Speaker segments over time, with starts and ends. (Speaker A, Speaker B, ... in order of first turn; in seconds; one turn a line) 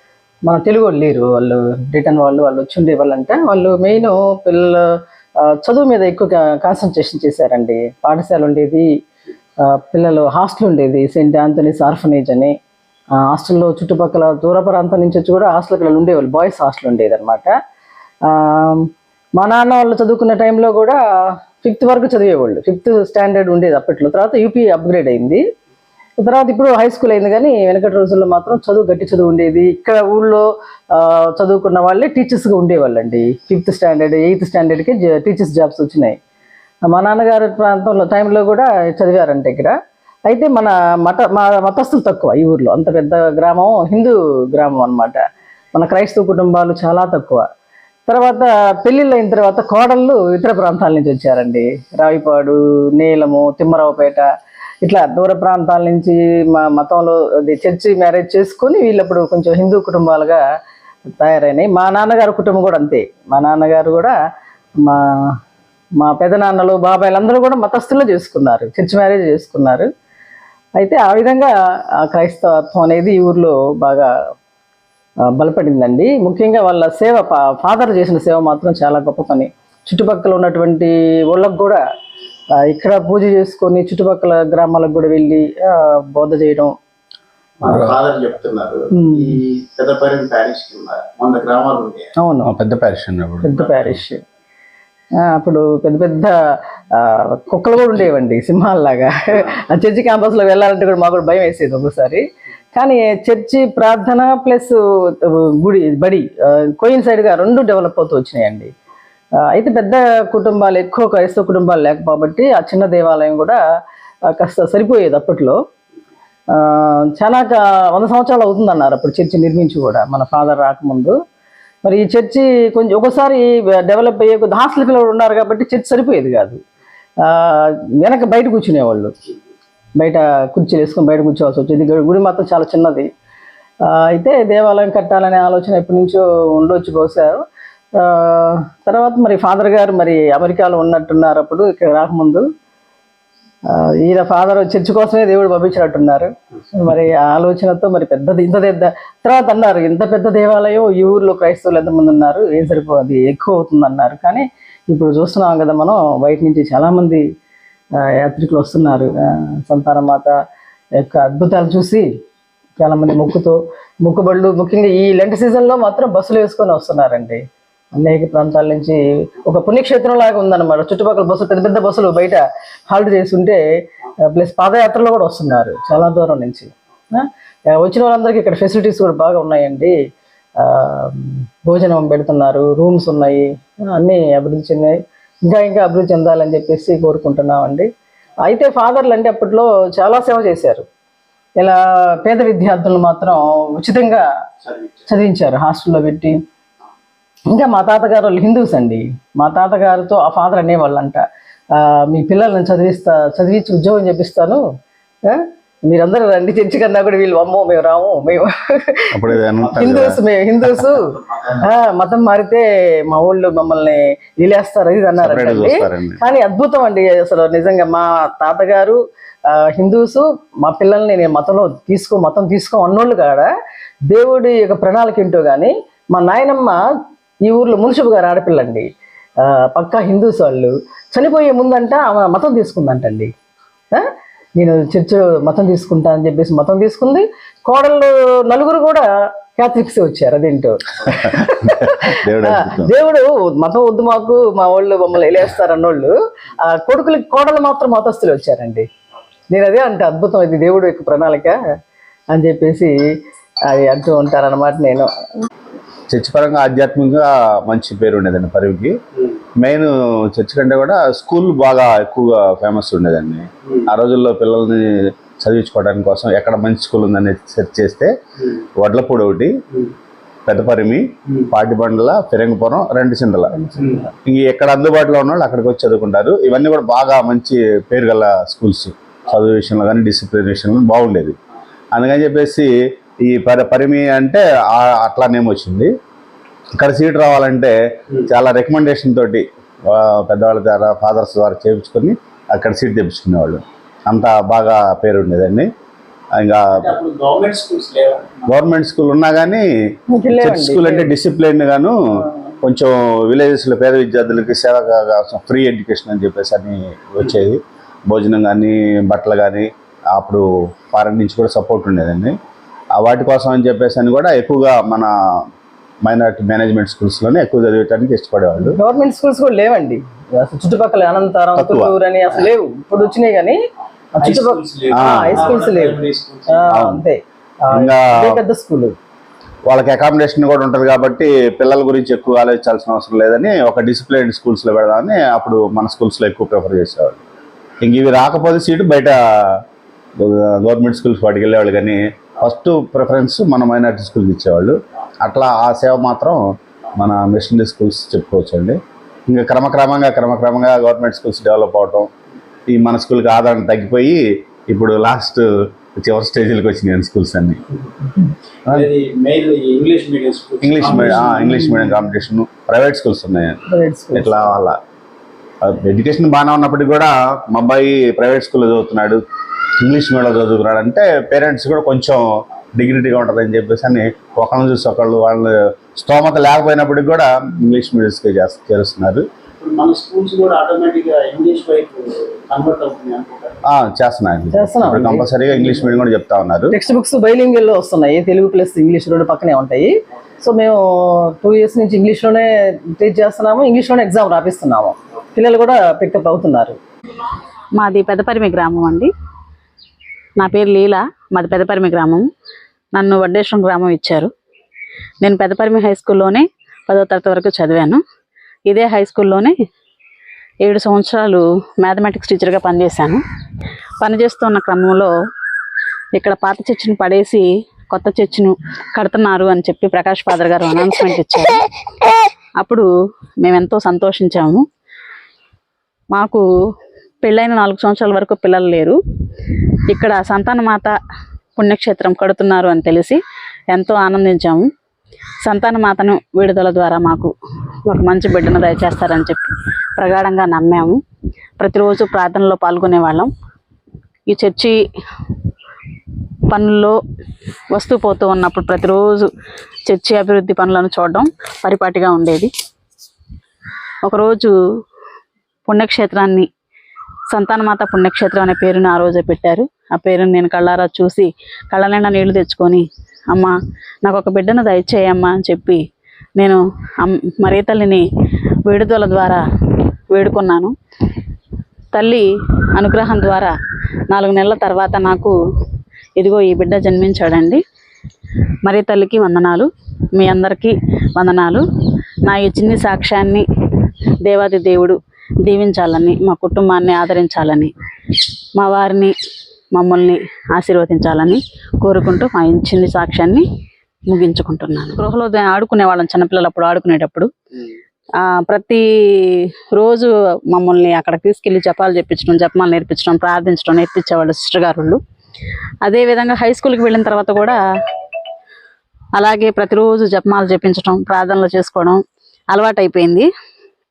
Speaker A: 0.4-4.9
Speaker A: 5.4-8.9
Speaker A: 9.6-12.5
Speaker A: 13.2-17.5
Speaker A: 18.2-21.0
Speaker A: 21.6-25.4
Speaker A: 26.2-36.2
Speaker A: 36.9-39.7
Speaker A: 40.3-45.2
Speaker A: 45.7-47.5
Speaker A: 48.1-54.3
Speaker A: 54.8-60.4
Speaker A: 61.2-64.1
Speaker A: 64.8-65.3
Speaker A: 66.0-69.9
Speaker A: 70.8-74.1
Speaker A: 75.3-81.8
Speaker A: 82.6-86.7
Speaker B: 87.6-92.1
Speaker A: 89.0-89.2
Speaker A: 92.2-92.5
Speaker C: 92.4-93.6
Speaker A: 93.4-94.2
Speaker A: 95.2-96.3
Speaker A: 96.9-108.7
Speaker A: 109.4-113.6
Speaker A: 114.3-115.6
Speaker A: 116.5-121.2
Speaker A: 121.8-126.6
Speaker A: 127.2-129.1
Speaker A: 130.0-133.1
Speaker A: 133.8-137.4
Speaker A: 138.0-142.4
Speaker A: 143.7-157.2
Speaker A: 158.0-160.3
Speaker A: 161.0-162.1
Speaker A: 162.8-173.6
Speaker A: 174.3-179.9
Speaker A: 180.6-187.9
Speaker A: 188.4-190.8
Speaker A: 191.6-194.2
Speaker B: 194.7-195.0
Speaker A: 195.1-196.4
Speaker A: 197.5-201.2
Speaker A: 201.7-204.6
Speaker A: 205.2-209.0
Speaker C: 209.1-210.1
Speaker A: 209.7-219.0
Speaker C: 215.2-216.2
Speaker A: 219.5-223.5
Speaker A: 224.1-226.8
Speaker A: 227.4-228.9
Speaker A: 229.4-233.3
Speaker A: 233.9-248.8
Speaker C: 242.1-242.9
Speaker A: 249.5-251.6
Speaker A: 252.3-253.0
Speaker A: 253.7-255.1
Speaker C: 256.1-258.9
Speaker C: 259.6-264.9
Speaker C: 265.4-268.1
Speaker C: 268.8-269.5
Speaker C: 270.4-273.5
Speaker A: 273.6-274.1
Speaker B: 273.8-274.0
Speaker C: 274.2-281.3
Speaker C: 281.9-282.7
Speaker C: 283.2-285.9
Speaker C: 286.8-287.7
Speaker C: 288.3-295.7
Speaker C: 296.4-296.6
Speaker B: 296.8-298.5
Speaker C: 298.5-299.6
Speaker A: 300.1-301.1
Speaker C: 300.4-301.9
Speaker C: 302.6-312.3
Speaker C: 313.0-315.1
Speaker C: 316.0-318.8
Speaker A: 318.6-323.6
Speaker C: 321.6-321.9
Speaker A: 324.1-326.0
Speaker B: 324.2-326.6
Speaker C: 324.9-325.4
Speaker A: 326.5-328.9
Speaker C: 326.7-327.0
Speaker C: 327.7-328.3
Speaker C: 329.6-337.2
Speaker C: 337.8-339.1
Speaker C: 340.2-346.4
Speaker C: 347.0-348.8
Speaker C: 349.3-352.1
Speaker C: 352.7-355.4
Speaker C: 356.0-357.6
Speaker B: 358.7-361.4
Speaker C: 360.6-363.6
Speaker A: 361.4-361.8
Speaker A: 363.7-364.5
Speaker C: 364.1-364.7
Speaker C: 365.6-369.2
Speaker C: 369.8-372.2
Speaker C: 372.8-379.2
Speaker B: 379.6-383.5
Speaker C: 383.7-386.7
Speaker A: 384.5-386.0
Speaker A: 386.7-389.9
Speaker A: 390.4-396.8
Speaker D: 397.8-399.1
Speaker D: 400.4-402.2
Speaker D: 402.9-404.3
Speaker D: 405.2-408.0
Speaker D: 408.7-409.5
Speaker D: 410.6-413.2
Speaker D: 414.0-415.1
Speaker D: 416.1-421.6
Speaker D: 423.4-424.6
Speaker D: 426.1-426.4
Speaker D: 427.2-429.0
Speaker D: 429.9-430.9
Speaker D: 431.6-433.2
Speaker D: 433.7-434.6
Speaker D: 435.4-437.3
Speaker D: 437.9-440.9
Speaker D: 441.6-443.3
Speaker D: 444.3-444.7
Speaker D: 446.5-446.9
Speaker D: 447.7-449.3
Speaker D: 449.9-452.5
Speaker D: 454.1-454.5
Speaker D: 455.7-456.4
Speaker D: 457.3-463.5
Speaker D: 464.0-465.8
Speaker D: 466.4-468.0
Speaker D: 468.7-469.4
Speaker D: 470.1-470.7
Speaker D: 471.9-473.5
Speaker D: 474.1-475.3
Speaker D: 476.2-477.6
Speaker D: 478.6-481.6
Speaker D: 482.3-483.4
Speaker D: 484.2-487.7
Speaker D: 488.6-489.1
Speaker D: 489.7-493.4
Speaker D: 494.1-497.3
Speaker D: 498.2-498.8
Speaker D: 499.7-505.0
Speaker D: 505.8-507.6
Speaker D: 509.2-512.0
Speaker D: 512.5-513.3